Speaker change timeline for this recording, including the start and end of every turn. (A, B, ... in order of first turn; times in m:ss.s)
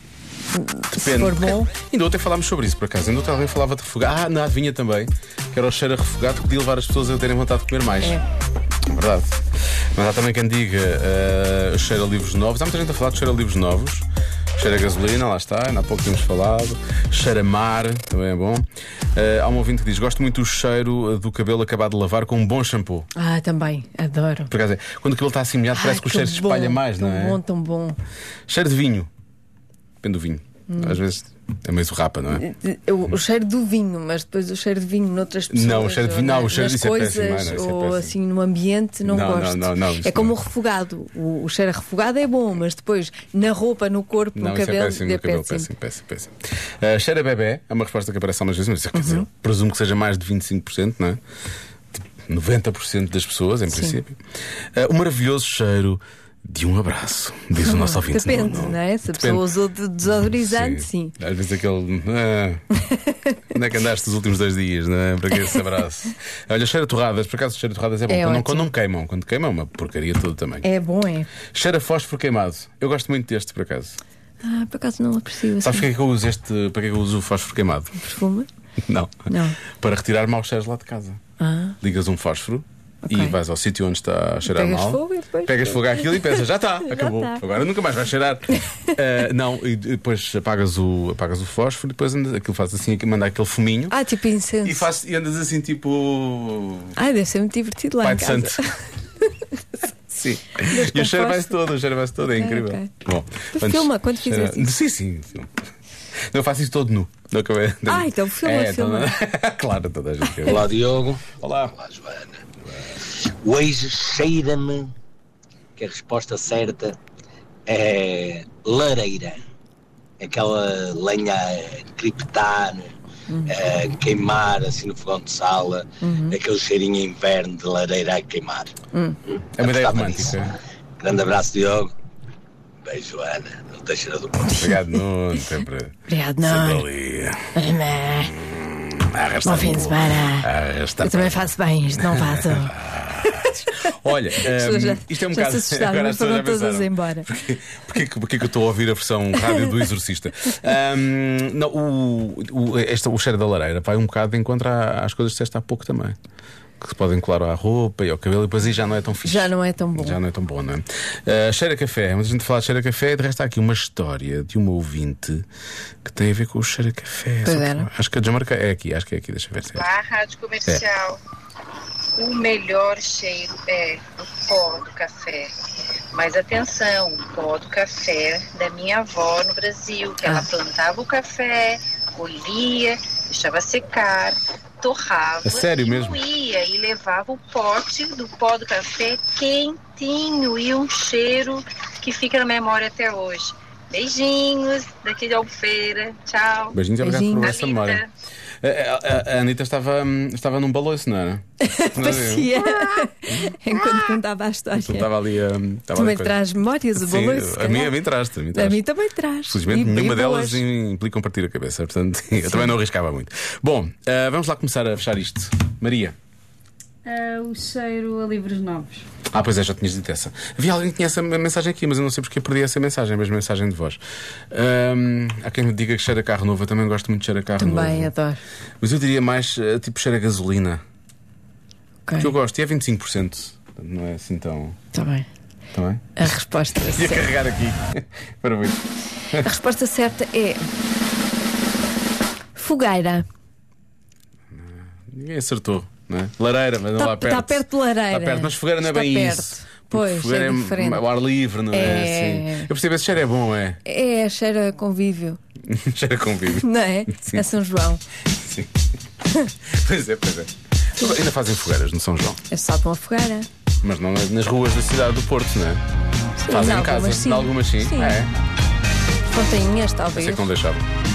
0:00.5-0:01.7 A
0:00.9-0:08.2 B
0:08.8-0:09.4 B
0:09.9-0:14.0 B
0:14.6-0:23.1 B
0:23.1-0:24.5 A
0:24.5-0:27.4 B
0:25.7-0:28.0 A
0:28.5-0:29.1 B
0:30.0-0:32.5 B
0:30.7-0:31.0 A
0:32.4-0:45.7 A
0:35.5-0:38.1 B
0:39.0-0:40.4 B
0:44.4-0:51.2 B
0:48.9-0:49.3 A
0:51.9-0:54.2 B
0:53.7-0:54.0 A
0:54.7-0:59.5 B
0:57.6-1:01.1 A
1:00.2-1:02.6 B
1:02.8-1:03.4 A
1:03.5-1:10.6 B
1:08.1-1:08.7 A
1:10.6-1:11.3 A
1:11.5-1:14.0 B
1:14.4-1:15.9 A
1:15.6-1:18.0 B
1:18.0-1:18.5 A
1:18.8-1:21.2 B
1:19.3-1:19.6 A
1:21.4-1:21.8 A
1:21.8-1:33.9 B
1:23.0-1:23.4 A
1:24.5-1:27.4 A
1:33.9-1:34.9 A
1:34.6-1:37.0 B
1:37.0-1:39.6 A
1:38.0-1:38.7 B
1:40.1-1:45.5 B
1:40.6-1:41.6 A
1:42.4-1:42.9 A
1:43.5-1:44.7 A
1:46.3-1:50.7 B
1:47.9-1:49.2 A
1:50.4-1:52.4 C
1:51.3-1:51.8 B
1:53.0-1:54.9 C
1:55.8-1:57.0 C
1:57.7-1:59.4 C
2:00.2-2:03.0 C
2:03.3-2:03.5 A
2:03.5-2:08.7 C
2:06.0-2:06.4 A
2:08.9-2:09.2 A
2:09.6-2:10.6 B
2:09.6-2:10.4 C
2:11.0-2:11.9 C
2:12.8-2:14.6 C
2:14.4-2:14.9 A
2:14.5-2:17.5 B
2:16.1-2:16.9 A
2:17.5-2:18.4 A
2:18.2-2:36.2 B
2:19.4-2:20.5 A
2:21.0-2:27.3 A
2:36.8-2:45.5 B
2:39.2-2:40.2 A
2:46.0-2:49.9 B
2:47.4-2:47.9 A
2:49.8-2:51.2 D
2:52.1-2:55.5 D
2:56.1-3:16.8 D
3:00.2-3:00.5 A
3:05.4-3:06.2 B
3:16.7-3:18.0 B
3:17.0-3:17.5 A
3:17.4-3:18.1 D
3:18.6-3:24.0 B
3:21.6-3:25.1 A
3:24.7-3:26.4 B
3:25.9-3:27.9 A
3:27.0-3:28.8 B
3:28.5-3:30.6 A
3:29.5-3:36.1 B
3:37.0-3:39.0 E
3:39.3-3:44.0 B
3:44.5-3:48.1 B
3:47.6-3:48.4 A
3:48.8-3:50.8 B
3:52.1-3:52.3 A
3:52.2-3:54.8 B
3:54.9-3:55.3 A
3:55.7-3:56.3 B
3:56.2-3:57.3 A
3:56.9-3:59.5 B
3:59.3-4:00.7 A
4:02.5-4:03.2 A
4:04.5-4:13.8 B
4:07.0-4:11.0 A
4:11.7-4:12.7 A
4:13.8-4:15.4 A
4:15.6-4:17.4 B
4:16.5-4:18.0 A
4:18.3-4:18.8 B
4:19.6-4:22.4 B
4:22.5-4:23.5 A
4:23.8-4:25.8 B
4:26.4-4:28.2 A
4:26.5-4:28.3 B
4:29.2-4:30.5 A
4:30.1-4:30.9 B